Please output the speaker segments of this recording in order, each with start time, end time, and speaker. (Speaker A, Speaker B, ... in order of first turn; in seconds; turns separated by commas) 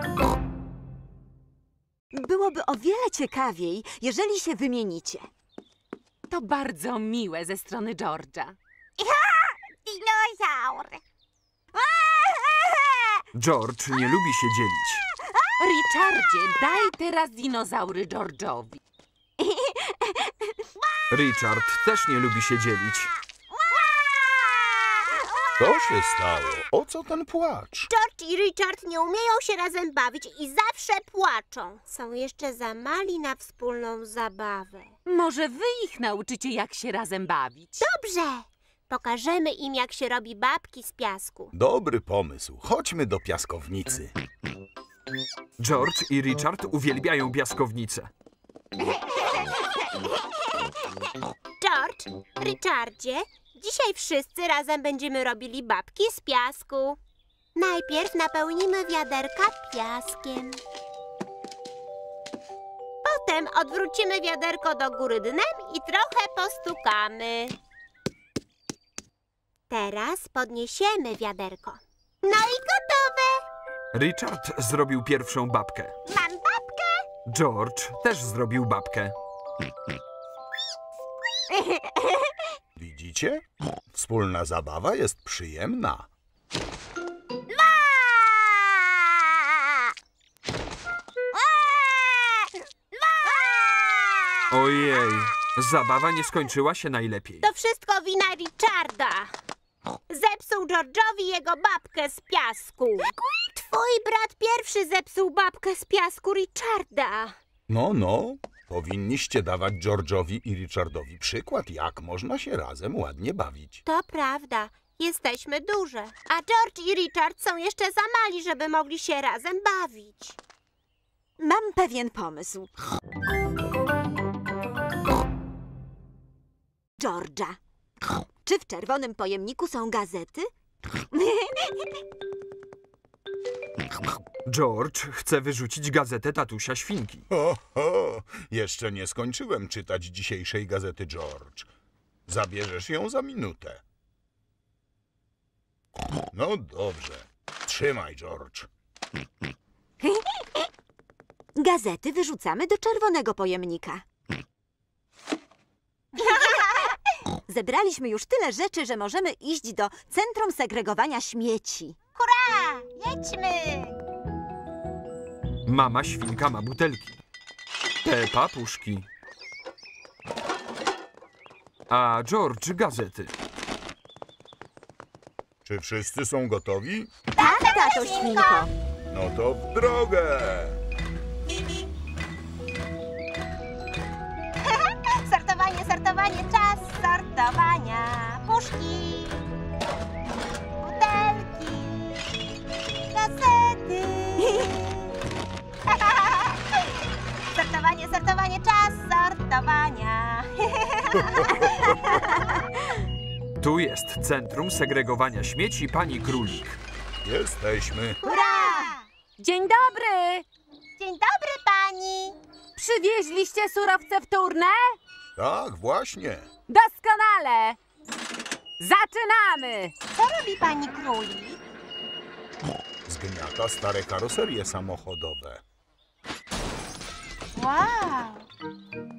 Speaker A: 2.1-5.3, Speaker B: 6.3-8.6, Speaker A: 9.0-11.0, Speaker A: 11.8-13.2, Speaker C: 13.3-15.1, Speaker B: 15.6-18.8, Speaker A: 19.4-20.3, Speaker C: 21.1-23.1, Speaker A: 23.7-25.1, Speaker D: 25.6-27.9, Speaker E: 27.9-35.0, Speaker B: 35.1-37.8, Speaker E: 37.8-41.5, Speaker D: 41.5-44.1, Speaker C: 45.6-48.1, Speaker E: 51.6-57.0, Speaker E: 57.6-60.6, Speaker E: 63.0-67.6, Speaker E: 69.7-73.4, Speaker C: 73.9-76.0, Speaker E: 76.1-77.0, Speaker C: 77.3-79.1, Speaker D: 82.8-83.4, Speaker D: 83.9-86.1, Speaker A: 91.6-92.3, Speaker A: 93.8-94.0, Speaker C: 94.5-97.5, Speaker E: 97.4-99.3, Speaker E: 100.1-107.4, Speaker D: 107.7-113.8, Speaker E: 113.8-120.4, Speaker A: 121.4-122.7, Speaker A: 127.0-127.6, Speaker A: 128.4-132.0, Speaker C: 134.5-137.3, Speaker D: 137.3-141.7, Speaker D: 142.3-143.8, Speaker D: 146.3-148.7, Speaker A: 150.0-150.4, Speaker A: 151.6-154.0, Speaker E: 156.2-156.9, Speaker A: 157.5-162.0, Speaker E: 162.2-164.0, Speaker C: 165.7-167.2, Speaker C: 168.0-169.1, Speaker C: 171.9-173.3, Speaker D: 175.7-177.1, Speaker E: 177.3-178.7, Speaker A: 177.4-178.7, Speaker D: 179.1-180.8, Speaker E: 184.7-189.4, Speaker E: 190.8-192.3, Speaker E: 193.1-194.7, Speaker E: 195.9-196.8, Speaker E: 197.5-202.6, Speaker C: 203.6-206.8, Speaker D: 207.2-208.2, Speaker E: 208.2-209.1, Speaker B: 208.3-210.4, Speaker E: 211.0-212.4, Speaker B: 212.8-215.0, Speaker D: 215.4-216.5, Speaker B: 216.7-217.8, Speaker B: 218.8-219.9, Speaker E: 220.1-221.6, Speaker D: 223.1-225.6, Speaker E: 227.6-228.5